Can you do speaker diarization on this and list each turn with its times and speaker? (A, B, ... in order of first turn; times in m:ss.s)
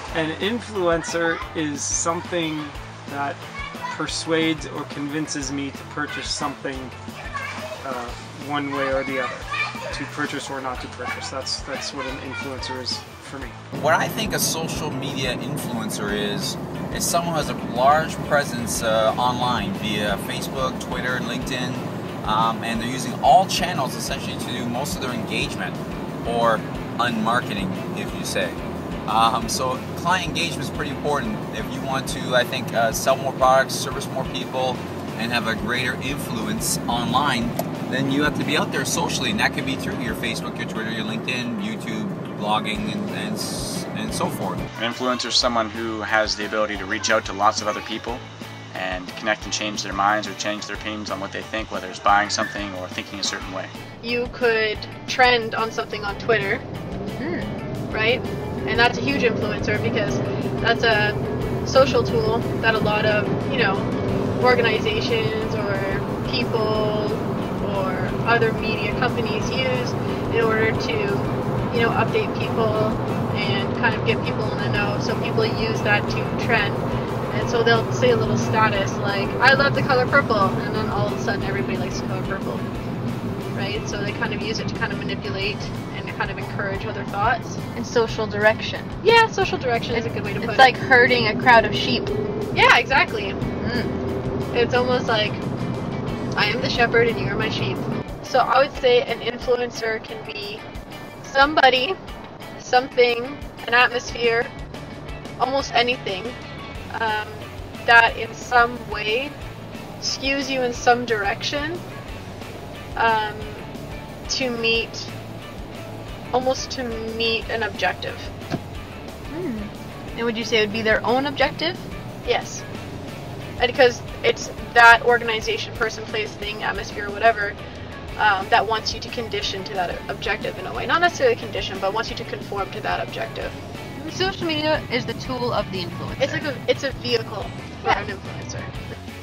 0:00.1-0:06.9 A
0:07.8-0:13.6 A
0:13.8-0:44.6 B
0:44.8-0:53.7 C
0:54.0-0:56.6 D
0:57.2-0:57.6 E
0:57.9-1:22.7 D
1:23.5-1:27.6 D
1:27.8-1:29.0 E
1:29.0-1:30.8 D
1:30.0-1:32.1 E
1:32.5-1:33.4 D
1:33.6-1:34.0 E
1:34.5-1:35.4 D
1:36.4-1:40.6 D
1:41.2-1:42.0 D
1:42.6-1:44.5 D
1:45.4-1:46.4 D
1:46.9-1:49.4 D
1:50.0-1:51.8 D
1:53.0-1:53.7 D
1:54.3-1:55.1 D
1:56.3-1:58.3 D
1:59.3-2:01.9 E
2:02.2-2:02.6 D
2:03.6-2:07.6 D
2:08.2-2:13.6 D
2:14.0-2:16.4 E
2:16.2-2:19.0 D